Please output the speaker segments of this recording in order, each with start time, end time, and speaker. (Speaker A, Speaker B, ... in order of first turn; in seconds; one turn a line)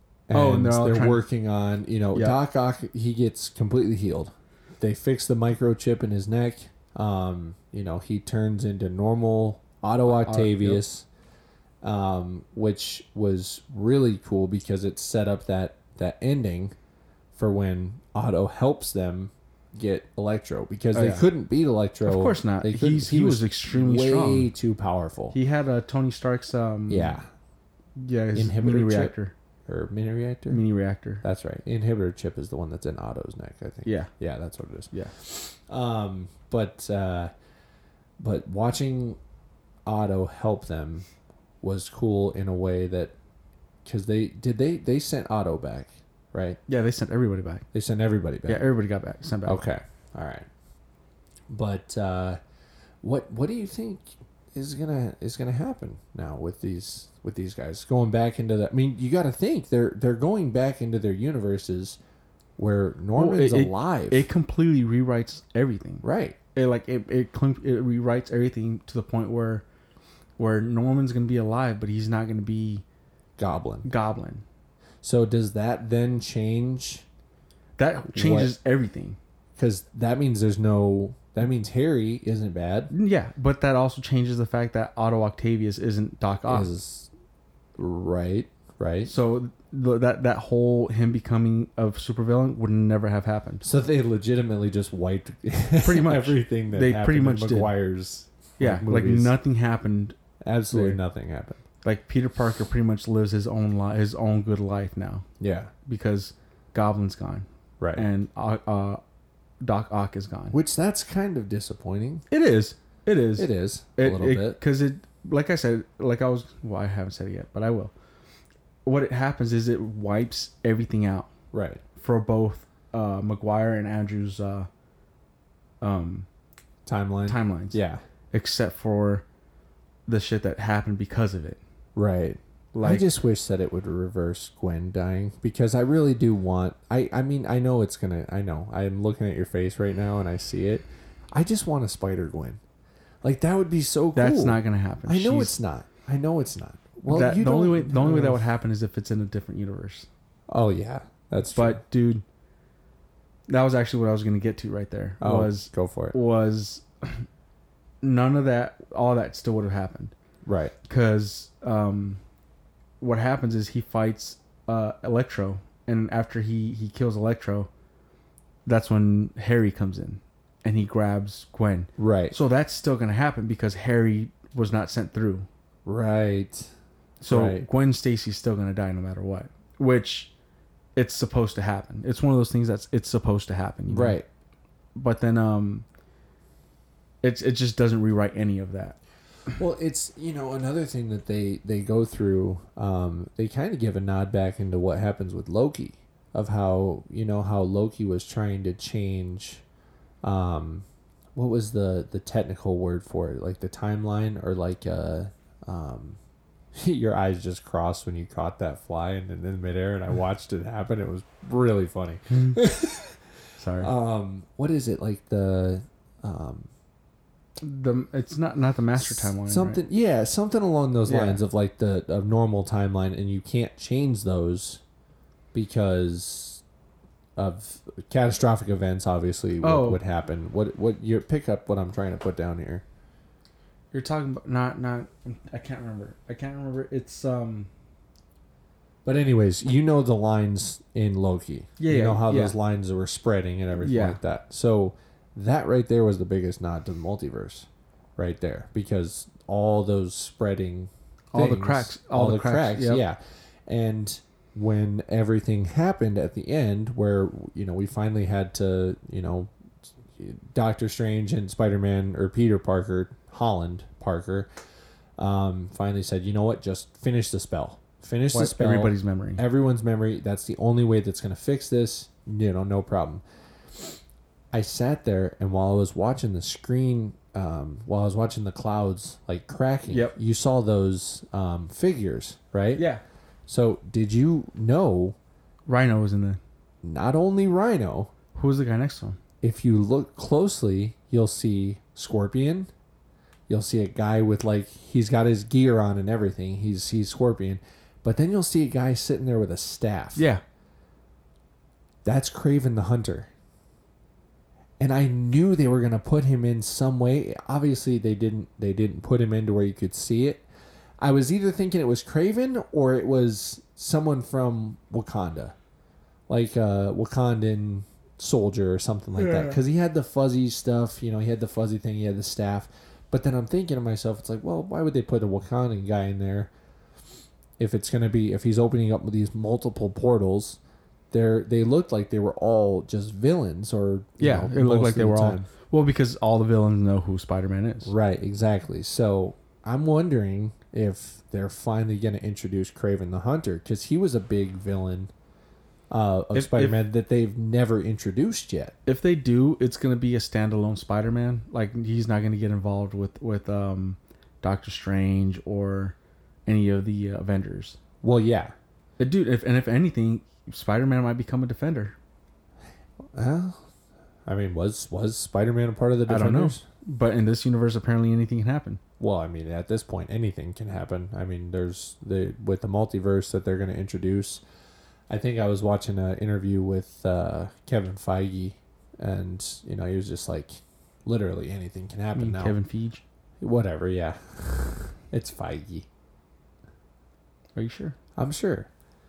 Speaker A: 0.3-11.1
Speaker B: 0.3-1.2
Speaker B: 10.1-10.8
Speaker A: 11.8-16.8
Speaker A: 17.4-25.4
Speaker B: 20.9-21.2
Speaker B: 22.0-24.5
Speaker B: 25.3-27.2
Speaker A: 26.9-27.3
Speaker B: 28.0-29.3
Speaker A: 28.3-29.1
Speaker A: 29.7-30.6
Speaker B: 30.5-31.2
Speaker A: 31.2-37.3
Speaker B: 33.9-34.1
Speaker A: 38.2-39.2
Speaker A: 39.9-41.1
Speaker A: 41.6-43.1
Speaker A: 43.9-46.6
Speaker B: 46.7-47.6
Speaker A: 47.7-48.7
Speaker B: 48.5-49.6
Speaker A: 49.5-50.5
Speaker A: 51.5-52.4
Speaker A: 53.0-62.0
Speaker A: 62.6-64.3
Speaker B: 63.1-69.6
Speaker A: 66.0-66.4
Speaker B: 70.4-72.8
Speaker A: 73.4-73.9
Speaker B: 73.8-74.4
Speaker A: 75.0-77.0
Speaker B: 77.8-79.2
Speaker A: 78.1-78.5
Speaker A: 79.6-82.9
Speaker B: 82.9-86.7
Speaker A: 86.5-87.1
Speaker A: 87.8-89.1
Speaker B: 89.1-93.7
Speaker A: 93.6-99.3
Speaker B: 95.8-97.7
Speaker B: 98.6-100.2
Speaker A: 100.4-101.6
Speaker B: 100.7-101.0
Speaker B: 101.8-105.3
Speaker A: 105.4-105.7
Speaker B: 105.9-109.0
Speaker A: 107.8-108.0
Speaker B: 109.6-110.6
Speaker A: 110.5-112.2
Speaker B: 112.3-117.9
Speaker A: 113.4-114.6
Speaker B: 118.8-121.3
Speaker A: 121.5-121.8
Speaker B: 122.0-124.7
Speaker B: 125.8-126.3
Speaker A: 126.9-128.0
Speaker B: 127.3-127.8
Speaker B: 128.3-129.2
Speaker B: 130.1-131.6
Speaker A: 132.0-142.6
Speaker B: 132.7-133.1
Speaker A: 143.2-148.4
Speaker B: 144.2-145.6
Speaker B: 147.1-150.1
Speaker A: 150.5-151.8
Speaker B: 151.5-152.2
Speaker B: 153.5-157.3
Speaker A: 155.2-156.2
Speaker B: 158.0-160.1
Speaker A: 160.4-160.8
Speaker B: 160.9-162.2
Speaker B: 163.0-167.7
Speaker B: 168.7-175.5
Speaker A: 172.0-172.3
Speaker A: 175.9-176.7
Speaker B: 177.2-180.3
Speaker A: 177.3-177.7
Speaker B: 181.0-184.2
Speaker A: 183.9-184.3
Speaker B: 185.0-185.8
Speaker B: 187.2-189.0
Speaker A: 189.5-199.6
Speaker A: 200.2-206.2
Speaker A: 206.8-213.2
Speaker B: 212.3-212.6
Speaker B: 213.6-213.9
Speaker A: 213.8-216.7
Speaker B: 217.6-219.8
Speaker A: 219.0-224.8
Speaker B: 221.1-221.4
Speaker A: 225.5-226.6
Speaker A: 227.4-232.8
Speaker B: 229.6-230.0
Speaker B: 233.9-237.7
Speaker A: 239.1-259.5
Speaker B: 241.8-242.6
Speaker B: 243.8-244.2
Speaker B: 251.3-253.0
Speaker A: 260.1-264.5
Speaker A: 265.2-273.2
Speaker B: 268.3-269.4
Speaker A: 274.5-282.8
Speaker B: 279.9-280.1
Speaker B: 282.8-283.0
Speaker A: 283.5-285.2
Speaker B: 285.7-286.4
Speaker A: 286.8-288.1
Speaker B: 288.4-289.2
Speaker A: 289.4-292.7
Speaker A: 293.5-300.2
Speaker B: 300.2-300.4
Speaker A: 302.1-303.3
Speaker A: 304.8-310.4
Speaker A: 311.0-315.6
Speaker A: 316.3-326.5
Speaker B: 319.2-319.5
Speaker A: 327.6-330.6
Speaker A: 331.1-335.5
Speaker B: 334.2-337.9
Speaker A: 337.9-345.1
Speaker A: 345.9-348.8
Speaker B: 346.3-346.8
Speaker B: 348.9-357.8
Speaker A: 358.0-358.5
Speaker B: 359.0-362.0
Speaker A: 363.1-363.6
Speaker A: 364.3-366.6
Speaker B: 366.1-368.8
Speaker A: 369.0-374.4
Speaker A: 375.1-382.5
Speaker B: 382.1-383.0
Speaker A: 383.4-385.9
Speaker B: 387.6-388.0
Speaker A: 388.2-388.7